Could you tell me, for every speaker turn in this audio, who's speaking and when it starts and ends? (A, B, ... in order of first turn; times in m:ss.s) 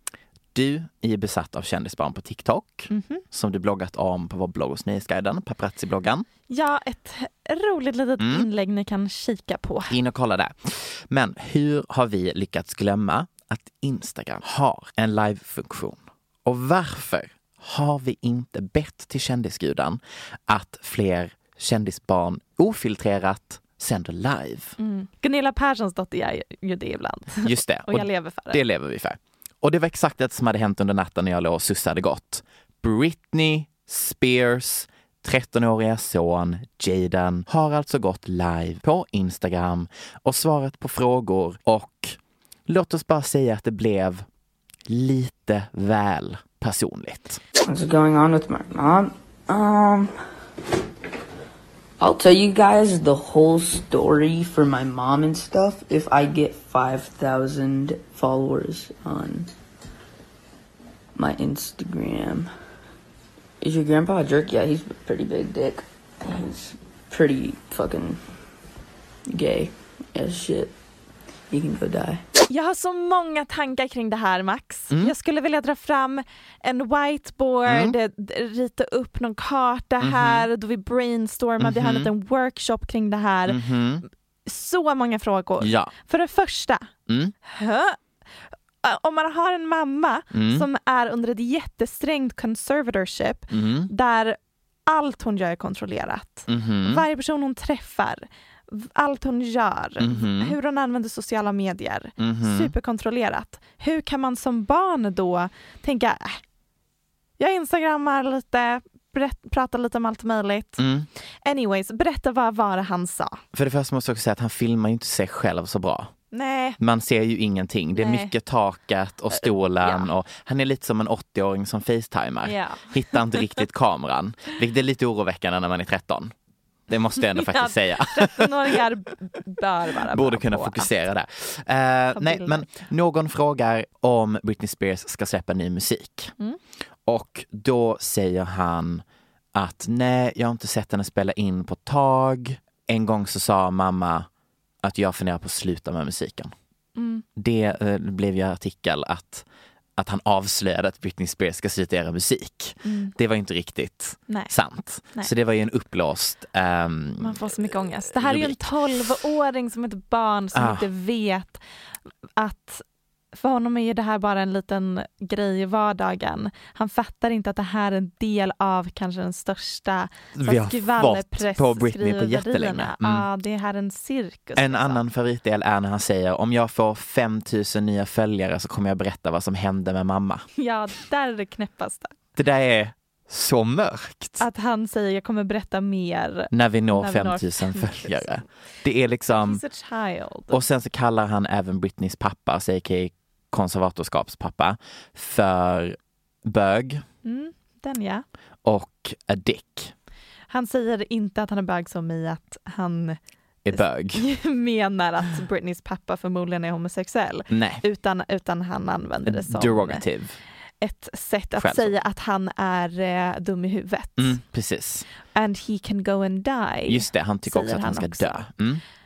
0:00.5-0:06.3 A
0:02.9-0:03.2 B
0:06.5-0:09.9 B
0:08.2-0:08.5 A
0:09.9-0:24.8 A
0:24.8-0:28.6 B
0:27.4-0:44.2 A
0:44.9-0:47.4 A
0:47.6-0:50.1 C
0:52.0-0:59.5 C
1:01.1-1:02.5 C
1:03.6-1:08.2 C
1:09.3-1:10.7 C
1:11.5-1:12.2 C
1:12.5-1:23.6 B
1:17.6-1:18.0 A
1:20.0-1:20.5 A
1:21.6-1:22.1 A
1:23.5-1:24.0 A
1:24.4-1:26.9 B
1:25.6-1:25.9 A
1:27.1-1:27.3 A
1:27.4-1:28.0 B
1:28.8-1:46.4 B
1:30.3-1:30.7 A
1:33.5-1:33.9 A
1:36.5-1:37.0 A
1:40.0-1:40.6 A
1:42.2-1:42.7 A
1:47.4-1:50.8 B
1:50.8-1:51.1 A
1:51.4-1:53.4 B
1:53.5-1:56.1 A
1:56.3-1:56.8 B
1:56.8-2:06.3 A
1:58.0-1:58.3 B
1:59.3-2:00.1 B
2:02.4-2:03.6 B
2:06.9-2:08.8 A
2:07.2-2:11.0 B
2:10.1-2:16.3 A
2:12.1-2:12.7 B
2:17.0-2:24.3 A
2:24.8-2:26.5 A
2:27.0-2:27.2 B
2:27.4-2:29.4 A
2:30.0-2:38.7 A
2:32.8-2:33.1 B
2:37.2-2:41.6 B
2:40.5-2:40.9 A
2:42.4-2:55.0 B
2:50.3-2:53.3 A
2:54.6-3:00.5 A
3:00.6-3:02.1 B
3:02.3-3:04.4 A
3:04.4-3:08.4 B
3:06.5-3:09.6 A
3:09.3-3:10.6 B
3:10.5-3:17.0 A
3:17.2-3:18.2 B
3:18.6-3:19.9 A
3:20.5-3:23.2 B
3:23.6-3:24.2 A
3:23.7-3:30.0 B
3:27.5-3:27.8 A
3:29.2-3:30.4 A
3:30.8-3:34.4 B
3:31.6-3:32.0 A
3:34.2-3:35.1 A
3:35.3-3:38.5 B
3:36.9-3:38.8 A